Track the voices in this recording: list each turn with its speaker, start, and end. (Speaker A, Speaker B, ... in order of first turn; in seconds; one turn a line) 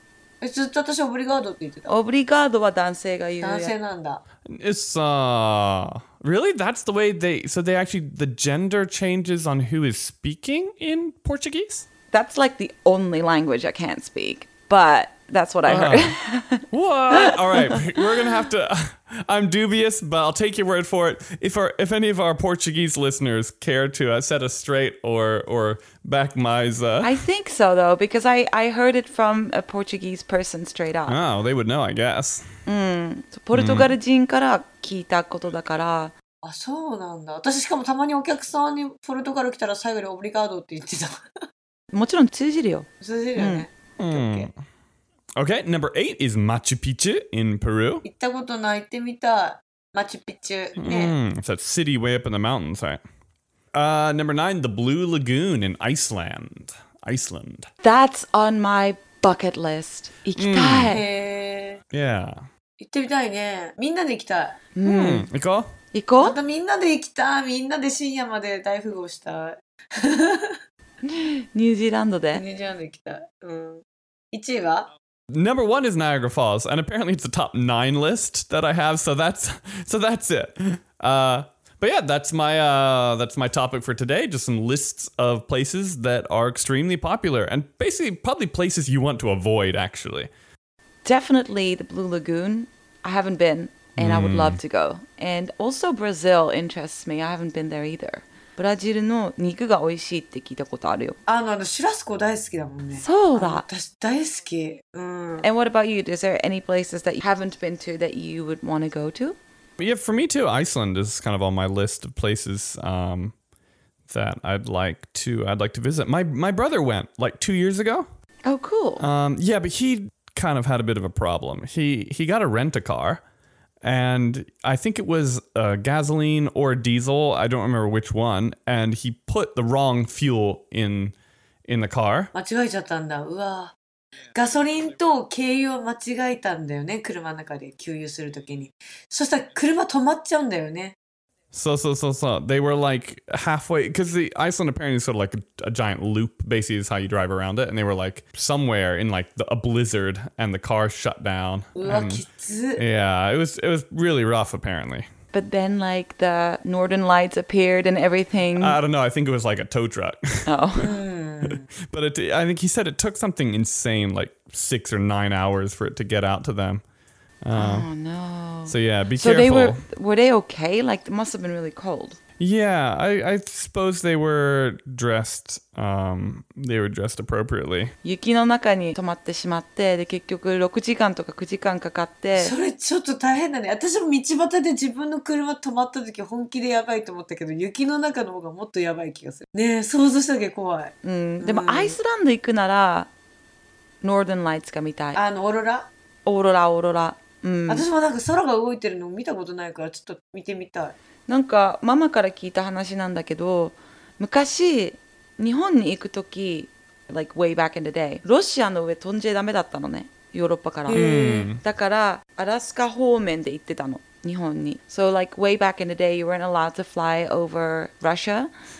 Speaker A: 0.4-1.9
Speaker B: 1.9-3.7
Speaker A: 3.4-4.2
Speaker C: 4.5-11.8
Speaker B: 12.1-17.8
Speaker C: 15.7-16.2
Speaker C: 16.7-27.2
Speaker B: 27.0-31.2
Speaker C: 31.1-32.5
Speaker B: 32.6-36.1
Speaker C: 33.5-33.9
Speaker A: 36.4-41.2
Speaker B: 41.9-43.6
Speaker A: 43.0-44.5
Speaker C: 44.0-44.5
Speaker C: 45.4-48.0
Speaker A: 48.0-51.1
Speaker C: 50.8-53.0
Speaker C: 53.7-57.7
Speaker B: 57.8-61.0
Speaker C: 60.4-61.0
Speaker A: 60.9-61.8
Speaker C: 61.9-62.4
Speaker A: 62.8-64.6
Speaker B: 64.7-65.3
Speaker C: 64.8-65.7
Speaker B: 65.9-66.3
Speaker A: 66.2-70.6
Speaker B: 71.0-72.4
Speaker A: 72.3-74.9
Speaker C: 75.3-90.3
Speaker B: 91.0-101.2
Speaker C: 94.0-94.6
Speaker A: 101.3-105.5
Speaker B: 103.0-103.6
Speaker B: 105.4-109.4
Speaker C: 109.8-113.3
Speaker C: 114.1-118.1
Speaker B: 118.4-119.1
Speaker C: 119.0-123.2
Speaker C: 123.8-131.1
Speaker C: 131.7-132.3
Speaker A: 132.3-133.7
Speaker A: 134.3-140.9
Speaker C: 141.5-152.2
Speaker A: 151.8-152.8
Speaker C: 152.8-155.1
Speaker B: 155.3-158.8
Speaker C: 158.6-160.9
Speaker B: 160.4-161.0
Speaker A: 160.8-161.6
Speaker C: 161.4-166.8
Speaker C: 167.4-167.9
Speaker B: 167.5-172.2
Speaker C: 168.7-169.8
Speaker C: 172.4-177.9
Speaker B: 178.0-182.5
Speaker A: 182.3-192.0
Speaker B: 191.0-193.1
Speaker B: 194.0-195.2
Speaker A: 195.1-195.9
Speaker B: 196.2-197.8
Speaker A: 197.7-200.9
Speaker B: 201.3-218.5
Speaker A: 210.9-211.5
Speaker C: 210.9-211.6